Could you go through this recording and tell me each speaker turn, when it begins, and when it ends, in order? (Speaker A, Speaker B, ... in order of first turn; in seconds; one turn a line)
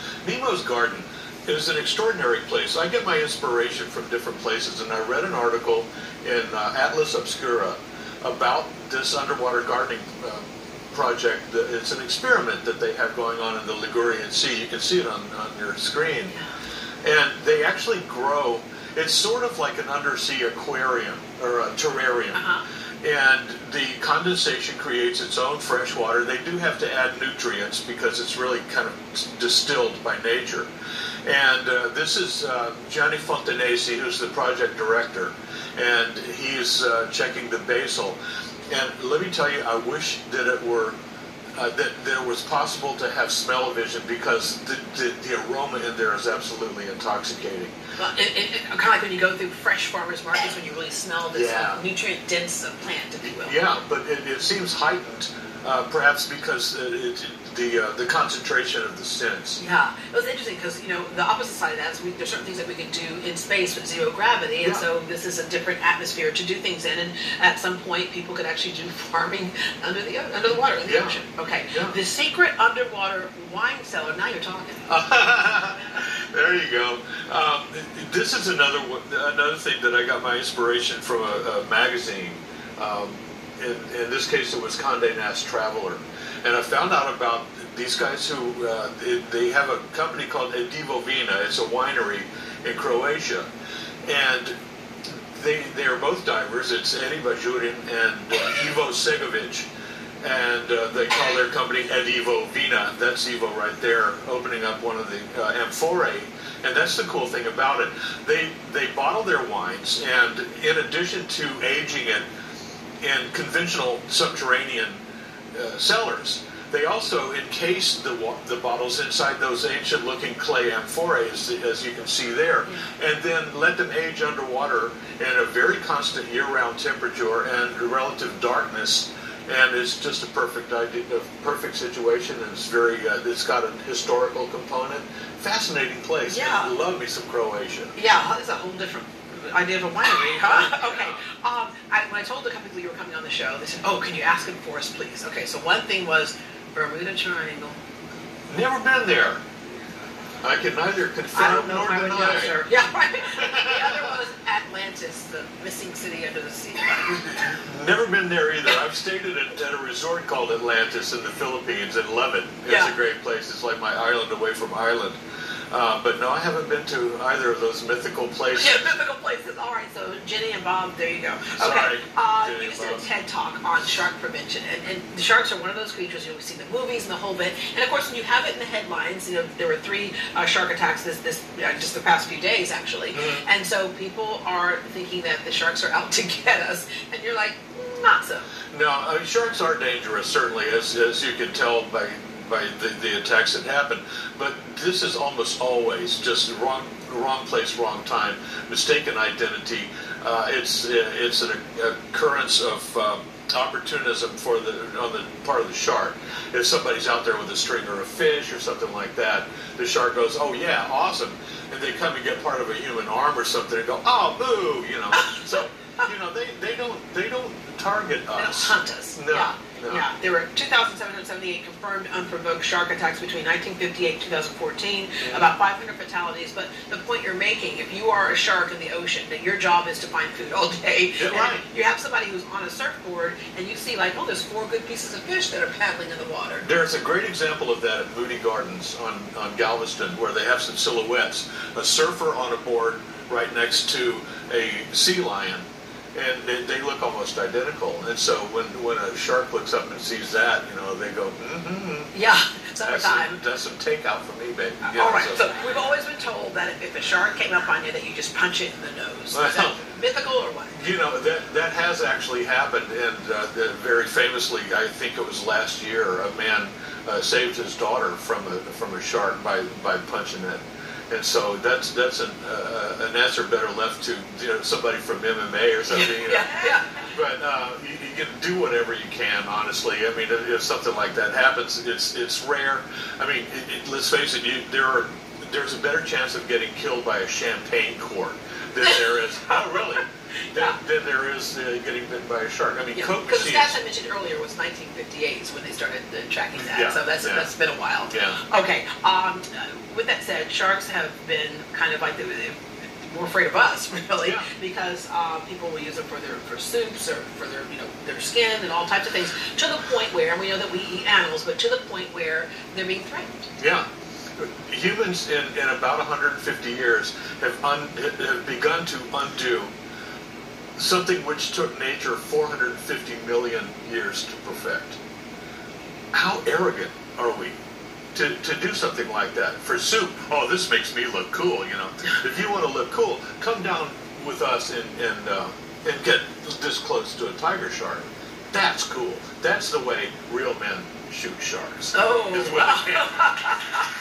Speaker A: 0.2-16.3
Speaker A: 17.0-22.4
Speaker B: 22.3-22.6
Speaker A: 23.0-30.7
Speaker A: 31.2-40.9
Speaker A: 41.5-47.7
Speaker B: 48.0-53.6
Speaker A: 51.3-51.8
Speaker A: 53.2-59.6
Speaker B: 59.6-74.9
Speaker A: 70.8-71.2
Speaker A: 74.9-93.5
Speaker A: 94.0-94.5
Speaker A: 95.3-99.7
Speaker A: 100.2-112.2
Speaker A: 113.0-115.0
Speaker A: 115.5-137.9
Speaker B: 136.2-136.7
Speaker B: 137.9-147.8
Speaker A: 140.2-141.1
Speaker A: 148.5-149.4
Speaker A: 150.4-152.6
Speaker B: 151.3-157.2
Speaker A: 157.1-165.2
Speaker B: 162.7-162.9
Speaker A: 165.7-168.9
Speaker B: 168.5-188.5
Speaker A: 171.6-173.1
Speaker A: 183.1-183.4
Speaker A: 188.7-220.0
Speaker B: 215.1-216.0
Speaker B: 218.3-236.6
Speaker A: 225.2-225.5
Speaker A: 231.2-231.6
Speaker A: 236.6-252.1
Speaker B: 252.1-253.4
Speaker A: 252.8-255.4
Speaker B: 254.8-260.8
Speaker A: 259.3-259.8
Speaker A: 260.7-293.8
Speaker B: 275.9-276.9
Speaker B: 292.9-313.5
Speaker A: 296.5-297.5
Speaker A: 298.1-298.4
Speaker A: 313.6-313.9
Speaker A: 314.4-319.7
Speaker A: 320.8-325.0
Speaker A: 326.1-327.6
Speaker A: 328.1-343.3
Speaker B: 341.9-343.8